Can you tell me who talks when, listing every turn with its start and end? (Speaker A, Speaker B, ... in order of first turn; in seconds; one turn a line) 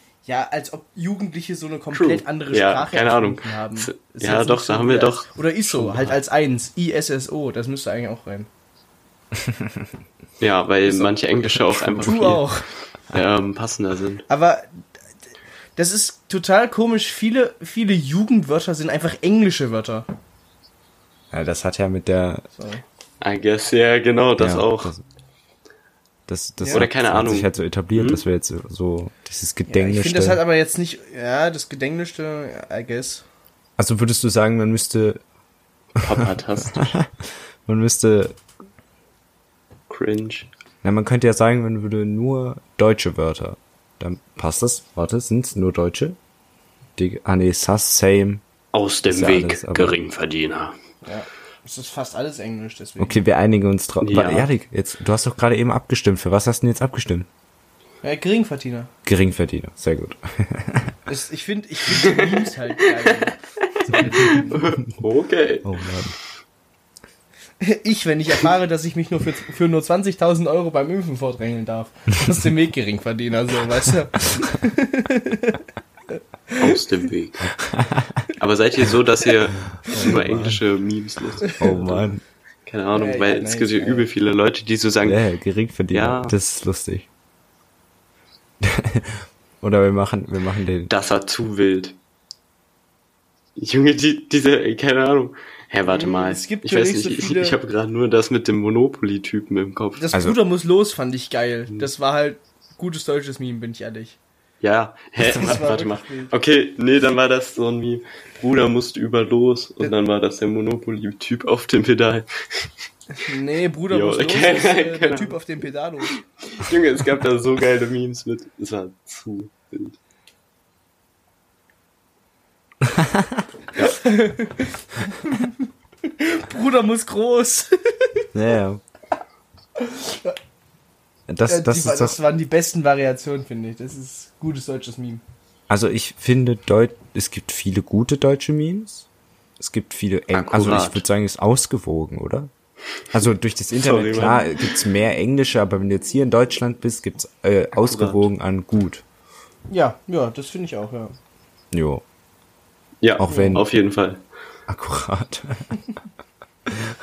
Speaker A: 0.2-8.5
Speaker B: 1.9-6.1
Speaker C: 9.4-9.8
Speaker B: 10.4-12.5
Speaker C: 11.4-12.4
Speaker A: 12.0-12.7
Speaker B: 13.1-14.2
Speaker A: 14.3-14.8
Speaker A: 15.8-20.1
Speaker C: 21.3-22.4
Speaker A: 22.5-22.8
Speaker B: 23.2-24.9
Speaker C: 24.4-25.0
Speaker C: 26.3-30.4
Speaker B: 26.7-28.2
Speaker A: 29.7-33.2
Speaker C: 33.8-35.2
Speaker B: 36.0-36.9
Speaker C: 36.1-37.1
Speaker C: 37.6-38.4
Speaker B: 39.9-40.5
Speaker C: 40.8-46.2
Speaker C: 47.0-48.4
Speaker B: 48.7-50.7
Speaker C: 49.1-50.0
Speaker A: 51.0-53.2
Speaker C: 53.0-57.3
Speaker B: 54.0-54.5
Speaker A: 58.0-58.9
Speaker C: 59.0-60.9
Speaker A: 61.1-64.8
Speaker B: 61.9-65.7
Speaker C: 63.9-65.0
Speaker C: 65.6-66.2
Speaker A: 67.6-75.6
Speaker A: 76.5-76.8
Speaker B: 76.6-77.5
Speaker C: 77.6-78.2
Speaker B: 78.4-82.0
Speaker C: 79.8-80.6
Speaker C: 81.5-82.2
Speaker B: 82.7-85.2
Speaker A: 82.9-84.1
Speaker C: 85.0-87.1
Speaker B: 85.9-86.3
Speaker C: 88.6-90.9
Speaker B: 90.9-92.0
Speaker B: 93.6-100.0
Speaker A: 95.8-97.6
Speaker A: 100.0-104.2
Speaker C: 100.1-100.4
Speaker B: 104.6-112.7
Speaker A: 105.3-106.3
Speaker A: 113.1-116.2
Speaker B: 113.9-115.4
Speaker B: 116.4-120.0
Speaker C: 122.8-123.4
Speaker A: 124.0-128.2
Speaker C: 128.3-128.8
Speaker A: 129.8-130.4
Speaker C: 131.3-132.2
Speaker A: 131.5-135.2
Speaker C: 135.7-139.1
Speaker C: 139.6-142.5
Speaker B: 140.3-141.0
Speaker C: 143.1-149.0
Speaker B: 143.8-144.8
Speaker B: 147.7-148.2
Speaker A: 149.7-151.2
Speaker C: 151.7-152.0
Speaker B: 153.0-154.2
Speaker C: 153.2-153.7
Speaker A: 153.2-153.6
Speaker C: 154.7-155.8
Speaker C: 156.7-156.9